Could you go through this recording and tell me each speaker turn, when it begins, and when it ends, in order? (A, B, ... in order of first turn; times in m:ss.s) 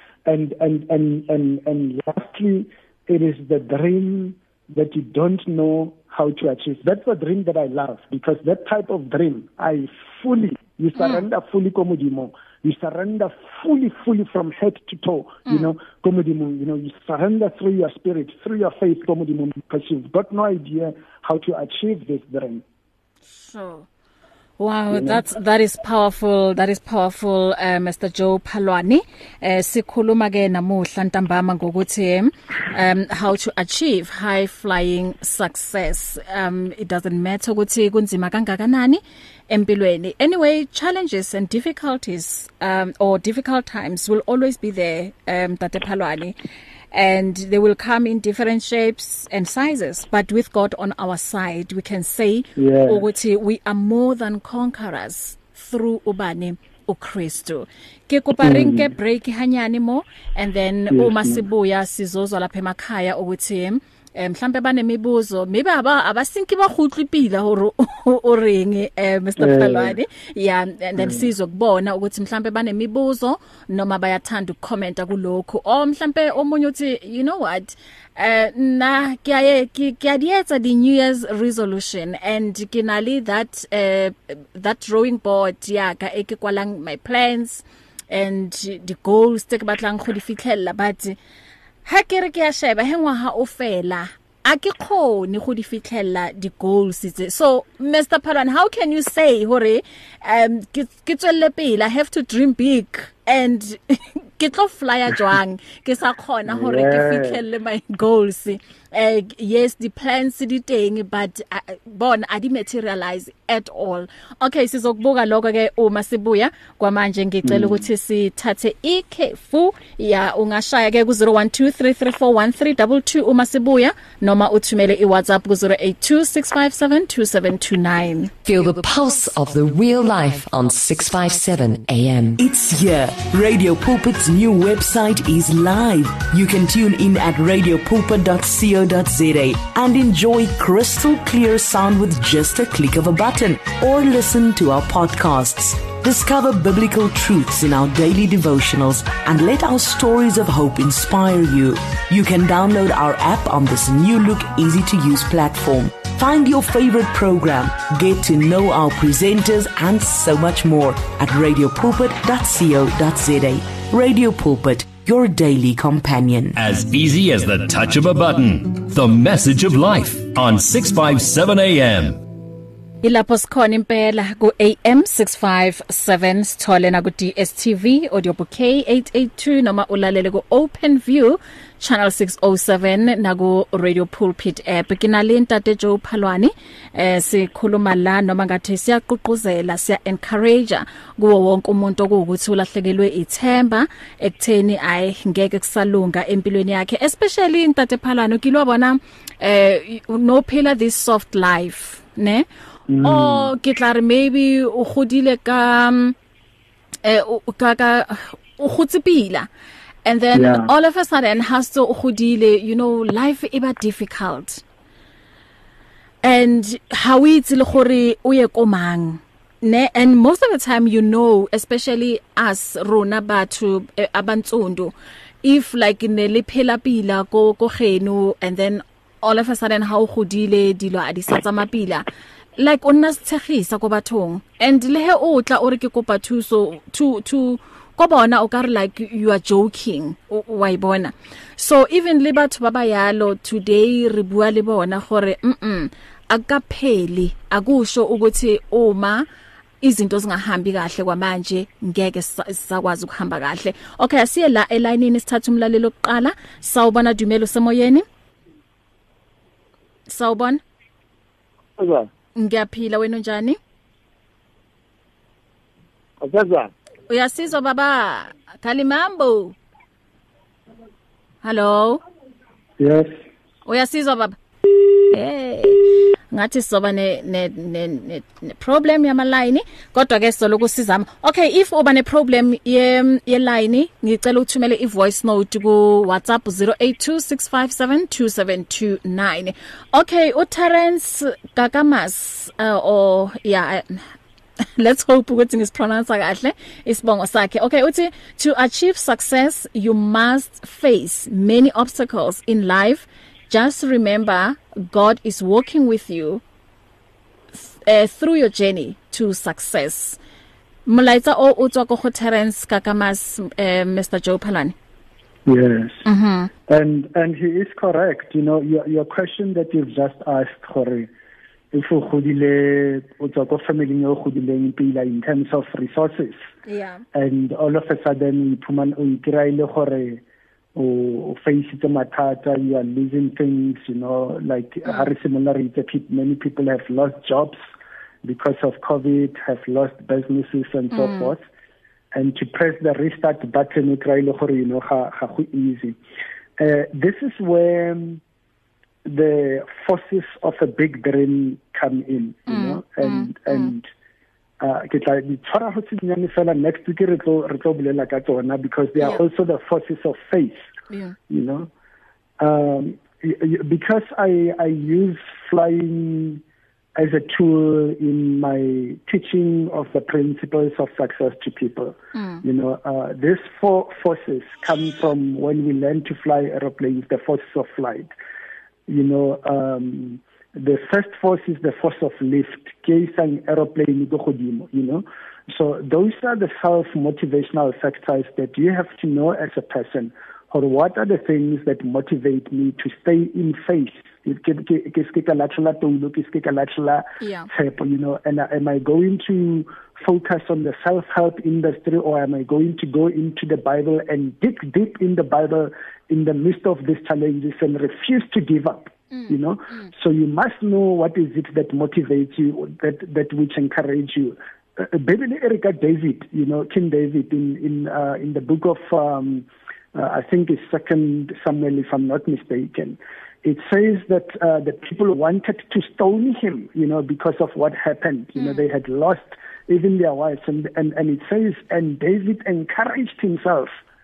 0:00.3-0:22.6 A
0:11.0-0:11.3 B
0:23.3-0:23.9 B
0:24.6-0:46.4 B
0:24.9-0:25.2 A
0:46.9-1:31.2 B
0:52.6-0:53.1 A
0:58.4-0:58.9 A
1:00.9-1:01.4 A
1:09.4-1:10.0 A
1:11.0-1:11.3 A
1:31.8-2:08.3 B
1:46.5-1:47.4 A
1:57.4-1:57.8 A
2:08.4-2:12.4 C
2:12.4-2:46.6 D
2:46.6-2:52.2 E
2:53.0-3:22.4 B
3:22.9-3:23.5 A
3:23.0-3:26.2 B
3:27.0-3:29.5 B
3:30.0-3:34.6 B
3:30.3-3:30.7 A
3:36.2-3:52.0 B
3:52.6-4:09.3 B
4:09.8-4:18.0 B
4:20.1-4:20.6 B
4:22.4-4:23.6 B
4:27.1-4:29.6 B
4:31.4-4:32.0 B
4:32.8-4:33.2 A
4:33.7-4:34.4 B
4:35.0-4:54.0 B
4:54.6-5:06.4 B
5:07.6-5:10.2 B
5:10.9-5:14.8 B
5:15.4-5:16.0 A
5:16.0-5:16.5 B
5:16.7-5:21.1 A
5:21.7-5:26.4 A
5:26.7-5:27.0 B
5:27.1-5:30.2 A
5:30.8-5:37.6 A
5:38.2-5:41.4 A
5:40.9-5:41.3 B
5:42.1-5:46.0 A
5:46.6-5:48.2 A
5:49.0-5:53.9 A
5:52.5-5:53.7 B
5:54.6-6:00.7 A
6:00.9-6:01.2 B
6:01.3-6:01.7 A
6:02.4-6:06.4 A
6:07.0-6:18.1 A
6:12.2-6:12.4 B
6:18.9-7:13.8 A
6:37.2-6:37.5 B
6:49.1-6:49.9 B